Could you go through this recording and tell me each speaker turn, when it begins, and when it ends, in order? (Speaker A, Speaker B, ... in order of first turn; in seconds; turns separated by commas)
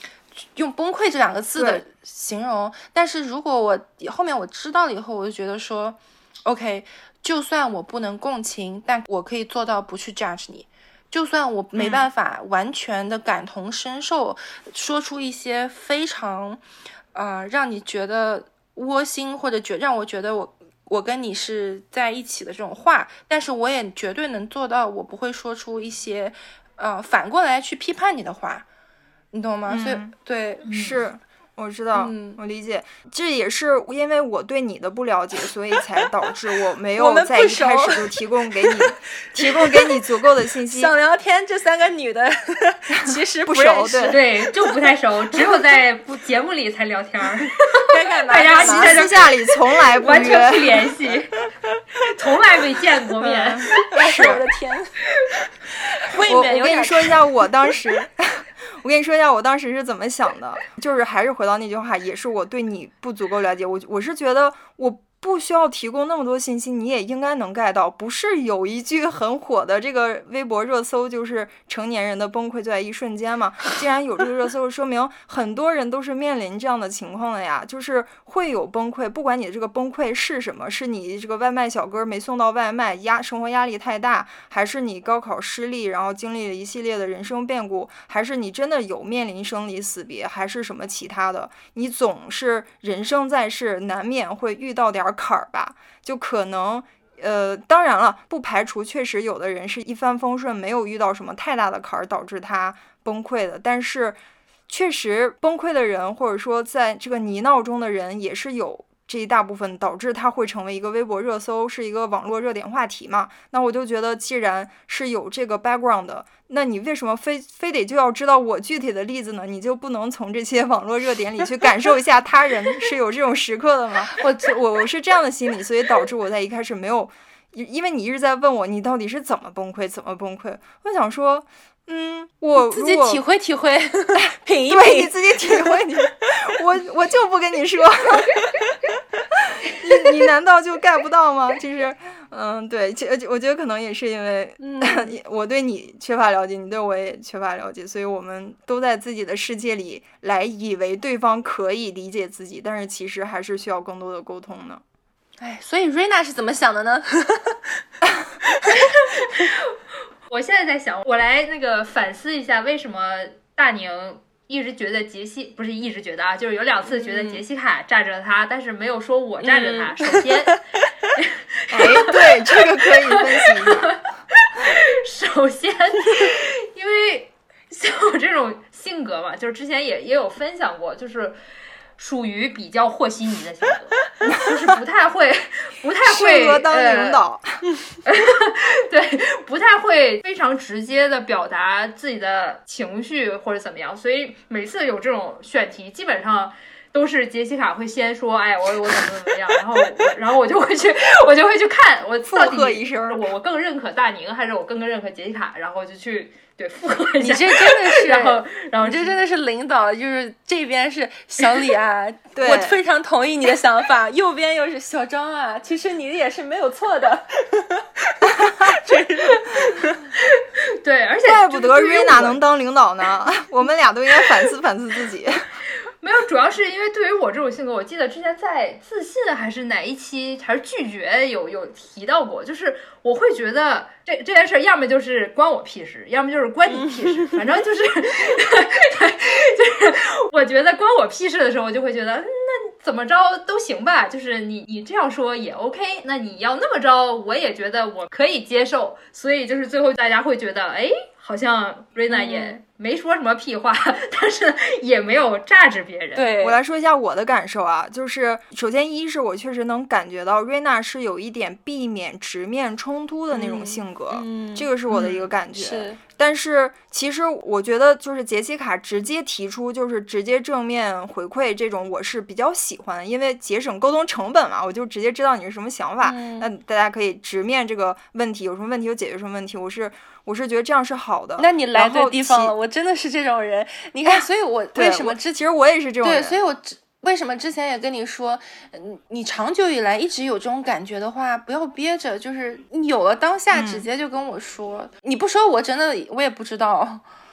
Speaker A: 0.4-16.6, Speaker B: 1.6-1.8, Speaker B: 11.7-12.1, Speaker A: 17.1-28.6, Speaker A: 29.3-30.7, Speaker B: 29.7-30.1, Speaker C: 30.6-31.0, Speaker B: 30.7-40.9, Speaker A: 31.9-32.4, Speaker A: 37.0-38.1, Speaker A: 39.3-40.0, Speaker A: 40.7-44.7, Speaker B: 43.0-44.2, Speaker C: 44.1-51.3, Speaker A: 47.9-49.1, Speaker B: 48.5-50.9, Speaker C: 51.9-54.2, Speaker B: 53.2-54.4, Speaker A: 53.8-54.9, Speaker A: 55.9-57.2, Speaker B: 56.2-104.2, Speaker B: 104.7-133.2, Speaker A: 124.2-124.5, Speaker A: 132.5-135.8, Speaker B: 134.7-138.4, Speaker B: 139.4-154.8, Speaker A: 144.6-145.1, Speaker A: 155.4-157.7, Speaker C: 158.7-159.8, Speaker C: 160.3-170.6, Speaker A: 166.9-167.4, Speaker A: 169.4-170.5, Speaker C: 171.2-181.4, Speaker B: 171.7-174.0, Speaker C: 182.0-187.2, Speaker B: 184.2-184.5, Speaker B: 186.0-187.6, Speaker C: 188.1-209.2, Speaker B: 202.3-203.2, Speaker A: 207.2-220.1, Speaker B: 212.3-212.8, Speaker C: 220.2-222.4, Speaker B: 221.2-225.4, Speaker C: 226.0-256.3, Speaker A: 236.7-237.4, Speaker A: 252.1-252.6, Speaker A: 256.1-256.6, Speaker B: 256.4-282.5, Speaker A: 263.3-266.0, Speaker A: 276.0-276.5, Speaker A: 281.4-285.4, Speaker B: 284.1-286.4, Speaker A: 286.0-297.0, Speaker B: 293.5-293.9